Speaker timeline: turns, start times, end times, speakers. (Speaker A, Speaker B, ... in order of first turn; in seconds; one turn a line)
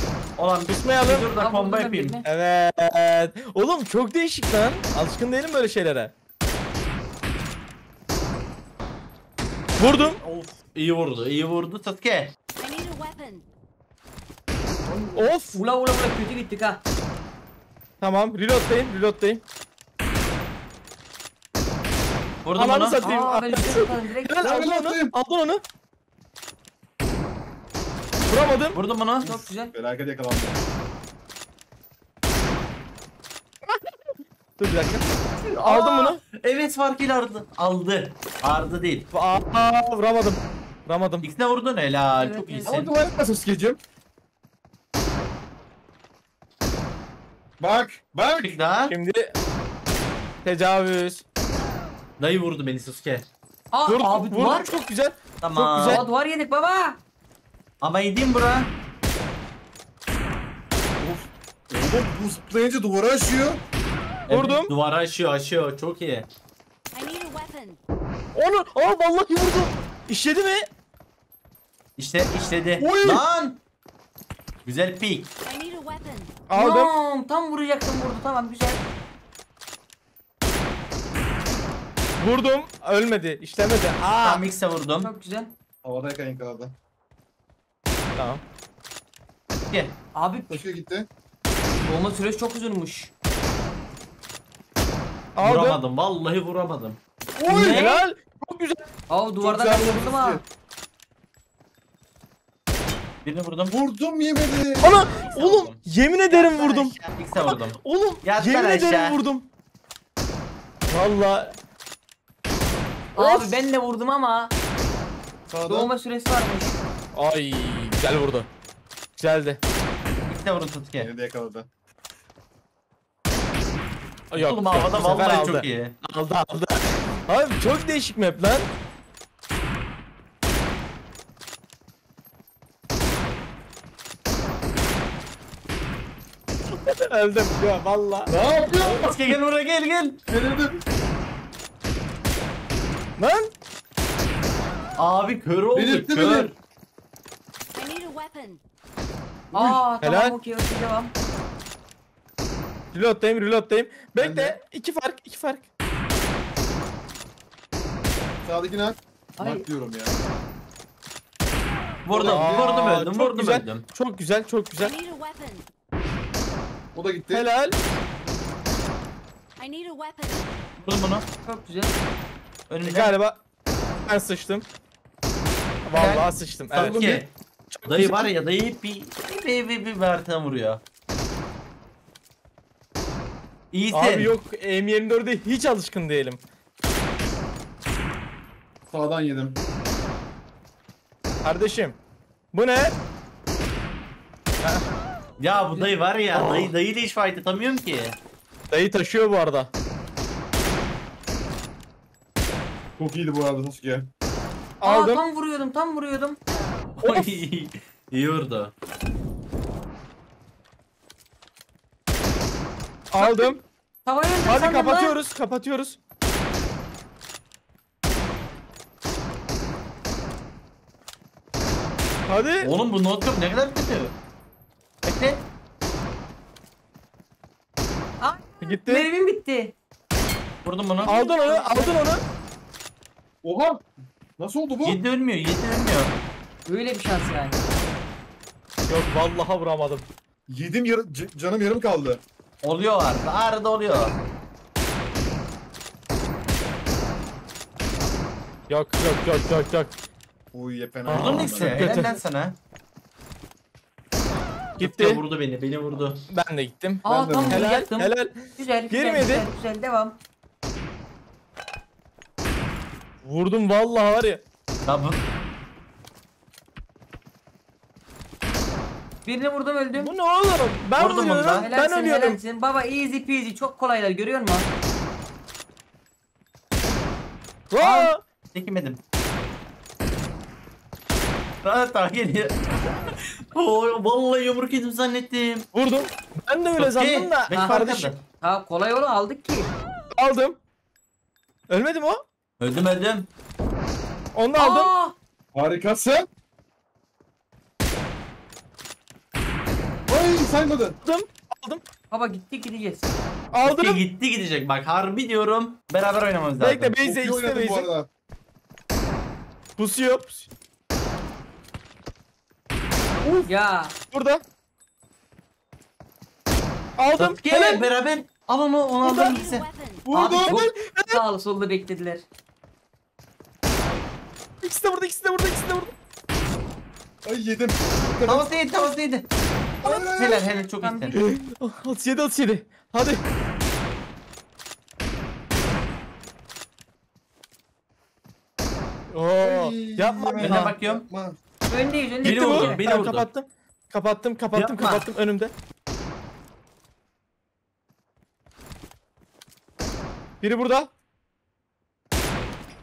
Speaker A: 0.4-2.2
Speaker B: 0.7-1.3
Speaker C: 1.3-2.2
Speaker B: 2.2-6.1
Speaker B: 9.8-10.2
Speaker A: 9.8-12.3
Speaker D: 12.6-13.4
Speaker E: 14.8-15.3
Speaker B: 15.1-15.6
Speaker C: 15.5-16.8
Speaker B: 18.0-19.4
Speaker A: 22.4-23.0
Speaker B: 22.5-25.6
Speaker C: 23.0-24.6
Speaker E: 24.4-25.1
Speaker B: 28.3-28.8
Speaker A: 28.7-29.3
Speaker C: 29.2-29.7
Speaker E: 29.2-30.6
Speaker B: 33.7-33.9
Speaker B: 34.6-35.0
Speaker A: 35.4-39.1
Speaker B: 35.6-36.2
Speaker B: 39.1-41.2
Speaker A: 41.2-42.9
Speaker C: 42.2-42.8
Speaker E: 42.6-43.8
Speaker E: 47.6-48.5
Speaker A: 48.4-48.9
Speaker B: 48.9-49.3
Speaker B: 50.4-51.2
Speaker A: 52.2-53.3
Speaker C: 53.7-54.7
Speaker B: 53.9-56.0
Speaker A: 55.4-56.1
Speaker C: 55.8-57.0
Speaker A: 57.8-58.7
Speaker E: 61.0-63.6
Speaker A: 64.3-66.3
Speaker B: 64.3-64.7
Speaker D: 66.9-67.8
Speaker B: 68.3-70.7
Speaker A: 72.0-73.6
Speaker E: 72.8-73.2
Speaker B: 72.8-73.1
Speaker A: 74.6-75.3
Speaker D: 75.5-76.4
Speaker B: 76.5-76.9
Speaker C: 76.5-78.8
Speaker B: 82.2-84.4
Speaker A: 84.2-85.1
Speaker C: 85.0-85.5
Speaker E: 85.8-86.7
Speaker B: 88.2-88.4
Speaker A: 89.7-90.0
Speaker C: 90.1-90.6
Speaker E: 90.5-91.1
Speaker C: 91.9-93.1
Speaker B: 95.3-95.8
Speaker A: 95.4-97.0
Speaker E: 97.4-97.8
Speaker C: 97.5-98.0
Speaker B: 97.5-98.8
Speaker C: 99.1-100.4
Speaker E: 99.4-100.4
Speaker A: 103.2-103.8
Speaker E: 103.7-104.9
Speaker B: 104.8-109.5
Speaker A: 104.8-109.2
Speaker B: 110.9-111.5
Speaker C: 113.1-114.5
Speaker B: 113.2-113.6
Speaker E: 115.5-115.9
Speaker C: 115.6-116.7
Speaker B: 117.1-118.5
Speaker B: 119.2-119.6
Speaker A: 120.3-121.1
Speaker E: 121.0-121.7
Speaker B: 124.3-128.7
Speaker A: 124.3-125.9
Speaker B: 136.7-138.3
Speaker E: 138.3-139.2
Speaker A: 138.7-140.2
Speaker E: 140.3-140.8
Speaker B: 143.2-143.5
Speaker A: 145.0-146.5
Speaker E: 145.7-146.5
Speaker D: 147.7-148.6
Speaker E: 149.5-149.8
Speaker C: 149.5-151.1
Speaker B: 150.0-150.3
Speaker B: 152.9-155.6
Speaker E: 154.2-154.5
Speaker E: 158.4-160.2
Speaker C: 159.4-159.6
Speaker A: 162.0-163.8
Speaker E: 162.1-162.8
Speaker B: 162.2-164.9
Speaker D: 164.8-165.6
Speaker E: 166.9-167.5
Speaker B: 167.3-167.8
Speaker D: 169.6-170.5
Speaker A: 170.8-171.2
Speaker C: 171.5-172.0
Speaker A: 172.7-173.1
Speaker B: 172.8-173.4
Speaker B: 174.1-174.7
Speaker B: 175.8-177.1
Speaker A: 175.9-177.3
Speaker E: 176.8-177.2
Speaker B: 177.7-178.3
Speaker A: 177.8-180.8
Speaker A: 183.7-184.3
Speaker B: 183.9-186.4
Speaker E: 188.9-189.6
Speaker B: 191.4-191.9
Speaker B: 192.5-192.9
Speaker A: 195.4-198.2
Speaker B: 196.3-196.7
Speaker B: 198.7-199.7
Speaker E: 203.0-204.1
Speaker B: 204.8-205.2
Speaker C: 204.8-206.4
Speaker A: 207.0-208.7
Speaker B: 207.0-207.3
Speaker B: 213.1-213.6
Speaker C: 213.2-215.2
Speaker B: 214.5-216.0
Speaker B: 222.3-222.7
Speaker A: 222.6-224.1
Speaker A: 225.0-225.4
Speaker C: 228.2-229.7
Speaker B: 228.6-229.1
Speaker A: 230.6-231.1
Speaker C: 231.0-232.1
Speaker B: 231.1-232.2
Speaker E: 233.4-233.8
Speaker E: 234.4-235.0
Speaker A: 234.8-236.1
Speaker C: 236.7-237.6
Speaker B: 238.9-240.1
Speaker E: 240.5-242.2
Speaker A: 242.6-244.1
Speaker B: 248.7-249.9
Speaker E: 250.5-252.1
Speaker B: 251.1-252.1
Speaker A: 251.1-252.6
Speaker B: 254.8-255.2
Speaker A: 254.8-256.3
Speaker B: 256.3-259.4
Speaker C: 257.0-260.2
Speaker E: 257.0-257.7
Speaker B: 263.2-264.4
Speaker A: 264.8-265.2
Speaker C: 269.2-270.1
Speaker B: 269.9-272.4
Speaker A: 271.0-271.7
Speaker C: 271.6-274.7
Speaker B: 277.7-278.2
Speaker A: 277.8-279.0
Speaker A: 281.6-285.7
Speaker B: 285.7-288.1
Speaker A: 286.8-288.2
Speaker C: 288.4-289.7
Speaker B: 290.1-290.6
Speaker B: 291.7-292.2
Speaker A: 292.6-293.3
Speaker B: 294.3-294.9
Speaker C: 294.6-295.1
Speaker E: 295.5-296.3
Speaker E: 300.1-301.0
Speaker B: 301.0-301.8
Speaker C: 302.1-303.1
Speaker B: 303.5-304.0
Speaker A: 303.6-306.9
Speaker B: 306.6-307.9
Speaker E: 307.0-308.1
Speaker B: 309.8-310.5
Speaker B: 313.2-313.5
Speaker C: 313.4-313.9
Speaker B: 314.1-314.4
Speaker B: 317.0-317.9
Speaker A: 317.2-320.5
Speaker B: 319.0-319.4
Speaker D: 319.1-320.0
Speaker E: 320.1-320.6
Speaker C: 320.3-322.2
Speaker B: 320.4-321.2
Speaker B: 324.6-325.9
Speaker E: 327.2-328.6
Speaker A: 328.2-329.2
Speaker E: 329.8-330.6
Speaker A: 329.9-331.2
Speaker C: 330.8-331.2
Speaker B: 331.1-333.2
Speaker B: 339.1-340.8
Speaker E: 339.4-341.4
Speaker A: 340.4-341.0
Speaker C: 341.7-342.8
Speaker A: 342.2-343.3
Speaker B: 342.2-345.5
Speaker A: 344.5-345.1
Speaker B: 350.4-350.9